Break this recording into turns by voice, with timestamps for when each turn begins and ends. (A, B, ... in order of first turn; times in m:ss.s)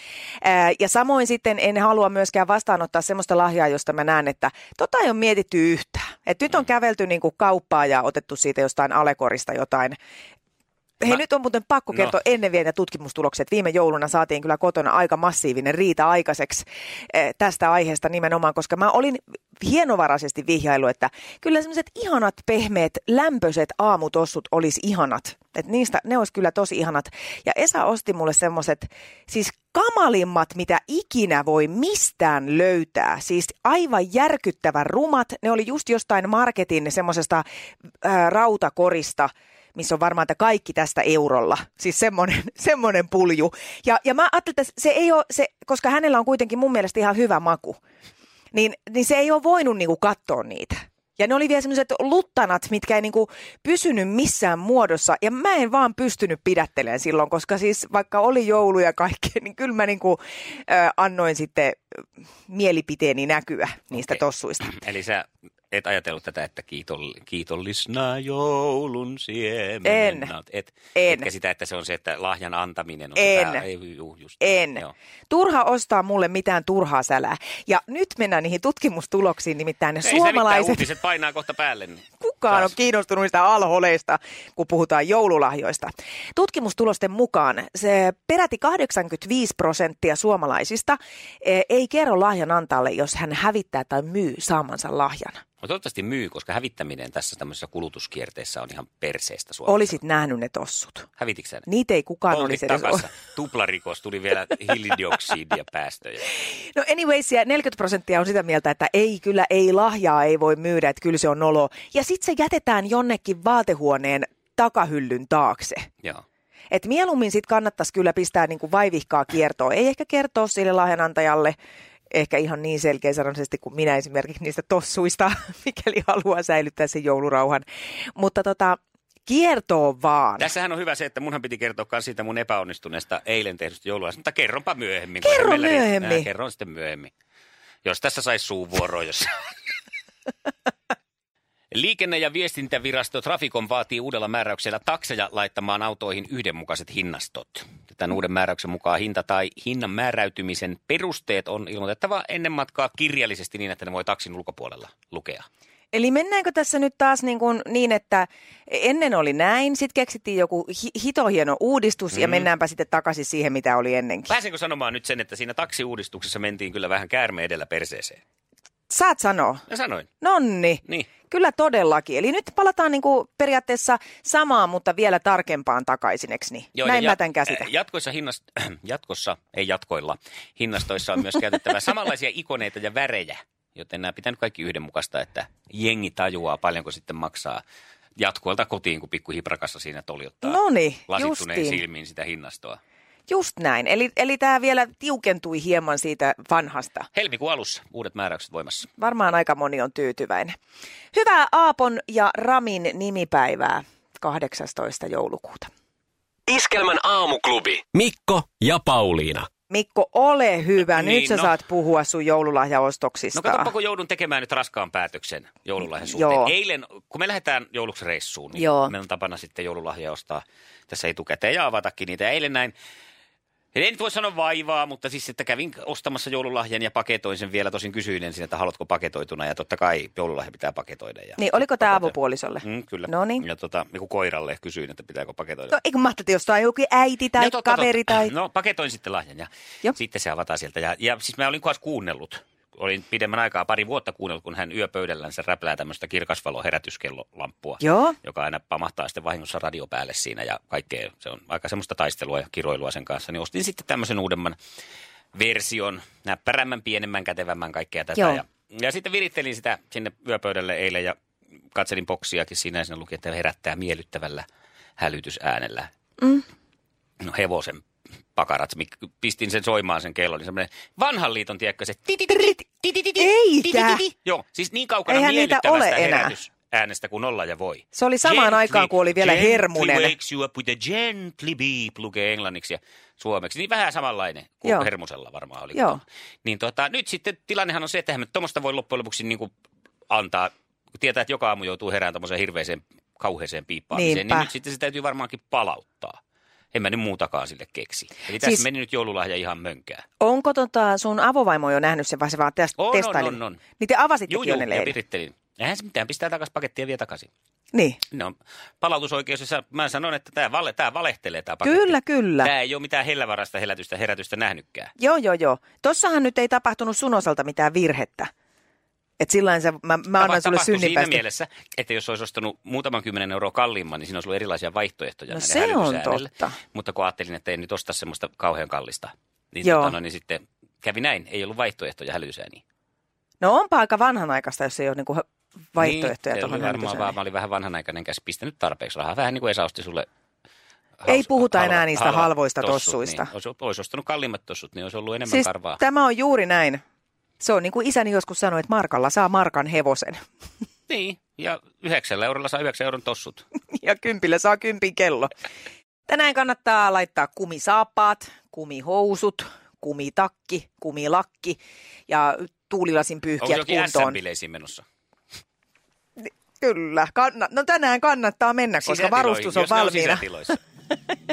0:00.4-0:10.0 A
0:11.0-0:37.4 A
0:38.0-0:47.8 A
0:48.5-1:04.7 A
1:04.1-1:14.9 B
1:09.8-1:10.3 A
1:11.0-1:11.3 A
1:13.2-1:13.6 A
1:14.4-1:20.9 A
1:20.0-1:22.7 B
1:22.2-1:35.4 A
1:35.6-1:40.0 B
1:39.7-1:41.1 A
1:41.2-1:41.7 B
1:41.7-1:43.1 A
1:42.3-1:46.3 B
1:46.4-1:55.9 A
1:56.7-2:01.6 A
2:02.1-2:10.5 A
2:10.4-2:17.1 B
2:15.2-2:16.3 A
2:17.8-2:19.3 B
2:21.7-2:35.5 B
2:35.9-2:44.3 A
2:42.1-2:42.5 B
2:44.3-2:48.2 B
2:48.9-2:49.6 A
2:49.7-2:50.1 B
2:50.2-2:57.7 A
2:50.8-2:51.1 B
2:56.8-3:07.6 B
3:08.2-3:12.8 B
3:10.4-3:11.8 A
3:13.3-3:17.1 A
3:17.2-3:18.9 B
3:19.0-3:20.6 A
3:21.1-3:25.7 A
3:26.5-3:29.5 C
3:29.7-3:33.7 A
3:30.8-3:31.5 B
3:33.3-3:42.7 B
3:35.8-3:36.5 A
3:38.6-3:38.9 A
3:43.7-3:55.8 B
3:51.4-3:53.4 A
3:55.7-3:58.3 A
3:57.4-4:14.6 B
4:07.8-4:08.2 A
4:15.3-4:21.2 B
4:18.2-4:18.4 A
4:21.7-4:24.5 B
4:25.0-4:25.9 B
4:27.2-4:27.8 B
4:28.4-4:49.5 B
4:32.3-4:32.6 A
4:33.1-4:34.1 A
4:35.1-4:36.4 A
4:37.9-4:40.1 A
4:45.7-4:46.0 A
4:50.1-4:56.2 B
4:53.9-4:54.5 A
4:56.7-5:00.0 B
4:58.4-4:58.6 A
5:00.2-5:05.0 A
5:02.8-5:03.6 B
5:04.3-5:07.3 B
5:07.7-5:08.0 A
5:08.1-5:14.9 B
5:11.6-5:12.5 A
5:15.0-5:18.3 A
5:19.2-5:21.2 A
5:20.2-5:32.6 B
5:25.3-5:26.6 A
5:29.6-5:30.0 A
5:33.4-5:37.1 A
5:35.8-5:40.1 B
5:41.0-5:45.8 B
5:41.1-5:43.3 A
5:45.3-5:46.8 A
5:47.4-5:50.2 A
5:50.9-5:53.4 B
5:53.7-5:55.3 A
5:56.1-6:04.2 A
6:03.4-6:04.8 B
6:06.2-6:10.2 A
6:08.8-6:10.6 B